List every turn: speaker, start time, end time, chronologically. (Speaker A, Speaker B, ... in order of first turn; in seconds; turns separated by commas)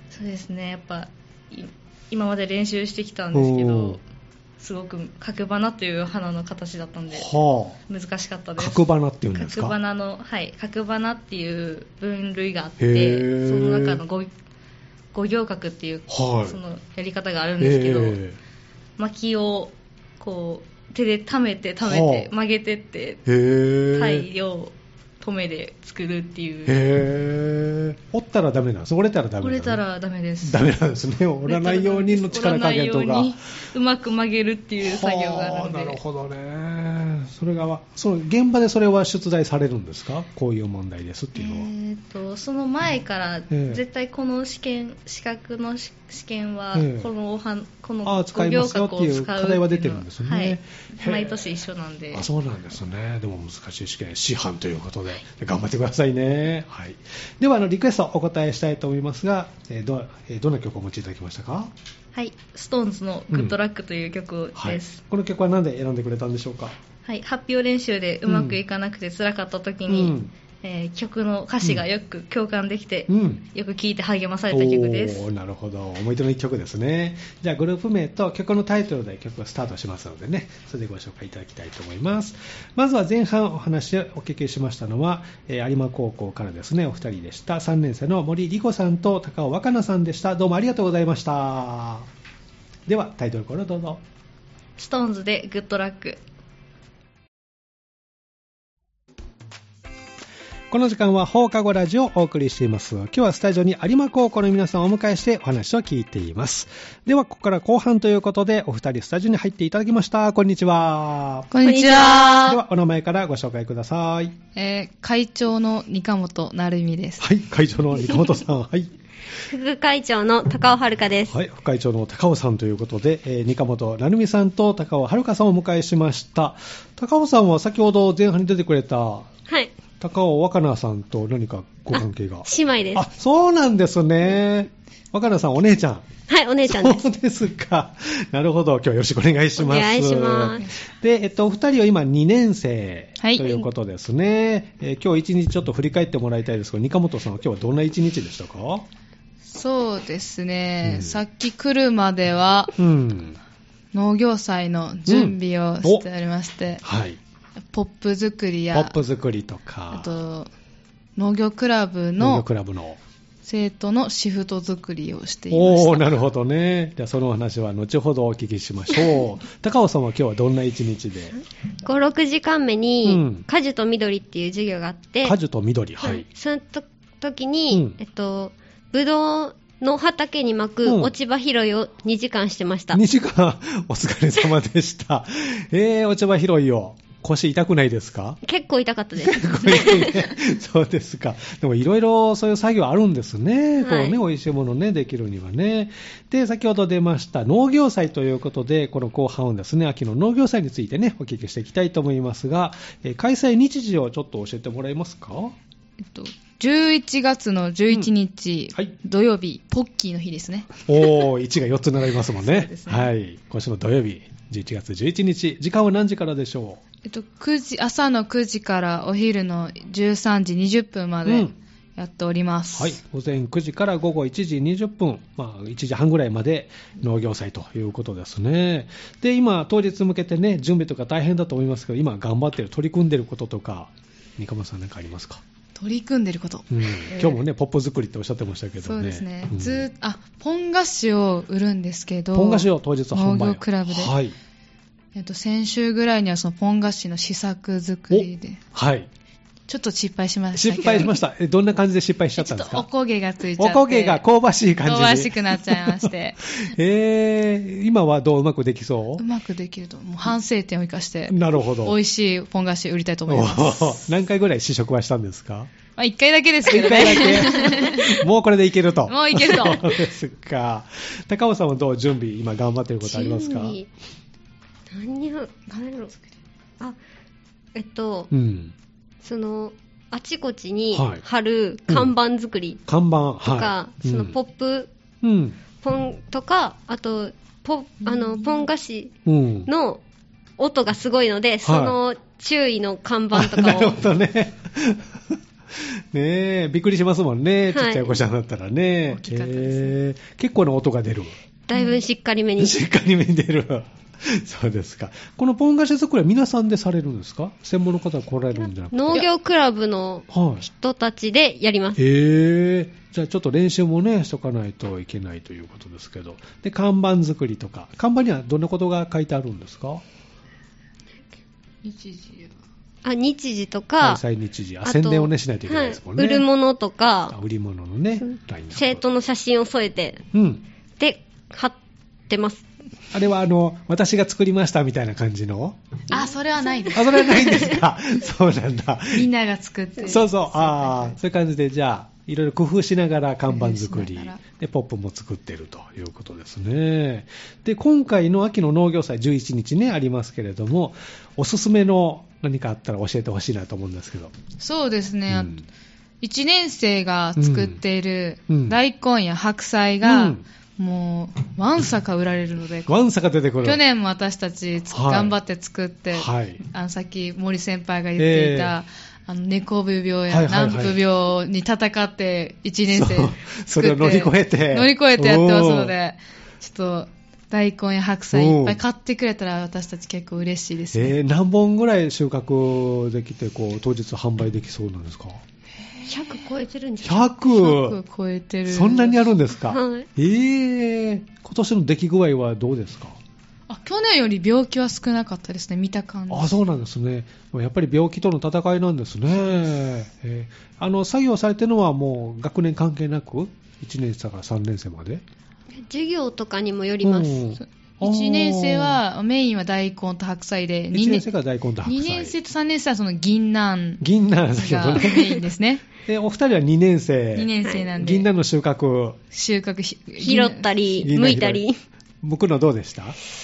Speaker A: 0.1-4.0, Speaker B: 3.3-4.0, Speaker A: 4.6-7.3, Speaker B: 7.1-7.8, Speaker A: 7.9-14.3, Speaker B: 8.6-9.8, Speaker B: 12.8-14.0, Speaker A: 15.1-18.2, Speaker B: 16.1-16.6, Speaker B: 17.6-18.4, Speaker A: 19.0-23.2, Speaker B: 21.8-22.3, Speaker B: 23.2-24.3, Speaker A: 23.9-26.8, Speaker B: 26.6-29.8, Speaker A: 29.4-30.6, Speaker B: 30.4-33.4, Speaker A: 31.4-36.0, Speaker B: 34.8-41.7, Speaker A: 41.3-52.3, Speaker B: 43.5-43.8, Speaker B: 46.7-47.1, Speaker B: 48.0-51.4, Speaker B: 52.1-61.7, Speaker A: 62.1-65.0, Speaker B: 64.5-66.8, Speaker A: 67.0-75.3, Speaker B: 68.3-68.6, Speaker B: 69.9-70.3, Speaker B: 73.1-73.4, Speaker B: 74.5-92.1, Speaker B: 92.9-94.0, Speaker A: 94.8-96.2, Speaker B: 100.7-111.5, Speaker C: 111.5-112.6, Speaker D: 111.6-112.6, Speaker B: 112.4-114.3, Speaker C: 114.5-117.2, Speaker B: 117.2-118.9, Speaker D: 119.5-121.3, Speaker B: 121.3-129.3, Speaker B: 130.0-136.1, Speaker D: 131.9-133.1, Speaker D: 136.3-137.1, Speaker B: 136.6-148.9, Speaker D: 139.6-140.6, Speaker C: 143.2-143.7, Speaker C: 149.4-152.7, Speaker B: 150.8-151.2, Speaker B: 152.8-153.4, Speaker C: 153.9-156.8, Speaker B: 155.1-156.0, Speaker B: 156.8-157.2, Speaker C: 157.6-158.9, Speaker B: 158.7-160.1, Speaker C: 159.9-160.5, Speaker C: 161.2-162.4, Speaker B: 162.2-163.0, Speaker C: 163.4-166.2, Speaker B: 165.5-171.3, Speaker D: 171.8-175.3, Speaker B: 173.0-173.4, Speaker B: 175.2-176.2, Speaker D: 176.0-183.0, Speaker B: 177.7-178.0, Speaker B: 180.8-181.1, Speaker B: 182.9-188.4, Speaker D: 188.4-190.3, Speaker B: 189.2-205.6, Speaker D: 193.8-194.2, Speaker C: 206.1-210.8, Speaker B: 210.9-216.8, Speaker C: 212.4-213.1, Speaker C: 217.0-223.0, Speaker B: 221.2-221.5, Speaker B: 222.7-235.4, Speaker C: 235.7-237.4, Speaker B: 236.7-239.9, Speaker C: 238.8-244.1, Speaker B: 242.3-244.3, Speaker C: 245.1-248.6, Speaker B: 248.1-249.1, Speaker C: 249.7-251.1, Speaker B: 250.5-252.9, Speaker C: 252.4-254.2, Speaker B: 253.6-259.2, Speaker C: 254.8-256.5, Speaker C: 259.2-264.0, Speaker B: 261.3-262.0, Speaker B: 263.3-265.7, Speaker C: 265.9-268.2, Speaker B: 266.6-273.8, Speaker C: 269.1-270.1, Speaker D: 273.0-273.9, Speaker D: 274.9-276.1, Speaker D: 277.7-278.3, Speaker B: 278.3-278.7, Speaker D: 279.2-282.8, Speaker B: 280.9-281.2, Speaker B: 281.9-282.1, Speaker B: 282.9-284.4, Speaker D: 283.4-284.9, Speaker B: 285.2-285.6, Speaker D: 285.8-290.0, Speaker B: 289.2-289.7, Speaker D: 290.6-293.9, Speaker B: 291.6-291.9, Speaker B: 293.3-301.3, Speaker D: 297.7-298.1, Speaker C: 299.1-299.9, Speaker D: 301.7-302.8, Speaker B: 302.6-309.3, Speaker D: 308.9-312.0, Speaker B: 310.3-310.6, Speaker B: 311.9-320.0, Speaker C: 321.8-322.5, Speaker D: 323.0-324.2, Speaker B: 324.0-326.5, Speaker D: 324.8-327.3, Speaker B: 327.3-329.0, Speaker D: 328.7-330.2, Speaker B: 330.3-330.6, Speaker D: 331.0-332.6, Speaker B: 333.1-335.8, Speaker C: 336.1-337.7, Speaker B: 336.9-339.3, Speaker C: 339.1-341.2, Speaker B: 340.0-354.3, Speaker C: 343.5-344.4, Speaker C: 354.6-355.6, Speaker B: 355.3-355.6, Speaker C: 356.2-362.9, Speaker B: 357.4-357.8, Speaker B: 358.5-358.8, Speaker B: 360.0-360.4, Speaker B: 362.9-363.8, Speaker C: 363.6-381.1, Speaker B: 364.9-365.4, Speaker B: 366.1-366.6, Speaker B: 368.2-368.7, Speaker B: 370.3-371.0, Speaker B: 372.9-375.9, Speaker B: 378.3-378.8, Speaker B: 380.9-385.4, Speaker C: 385.8-386.4, Speaker D: 386.1-387.3, Speaker B: 387.0-388.0, Speaker C: 387.4-389.3, Speaker B: 388.7-393.2, Speaker D: 389.7-390.1, Speaker C: 393.7-396.6, Speaker B: 396.3-405.2, Speaker D: 405.8-407.5, Speaker B: 407.0-409.0, Speaker C: 407.6-411.3, Speaker B: 410.9-412.4, Speaker C: 411.8-414.0, Speaker B: 414.0-415.4, Speaker C: 414.5-415.8, Speaker B: 416.0-419.2, Speaker C: 417.3-418.3, Speaker D: 417.6-417.9, Speaker C: 419.3-421.1, Speaker D: 420.2-421.8, Speaker B: 421.0-421.6, Speaker B: 422.2-423.2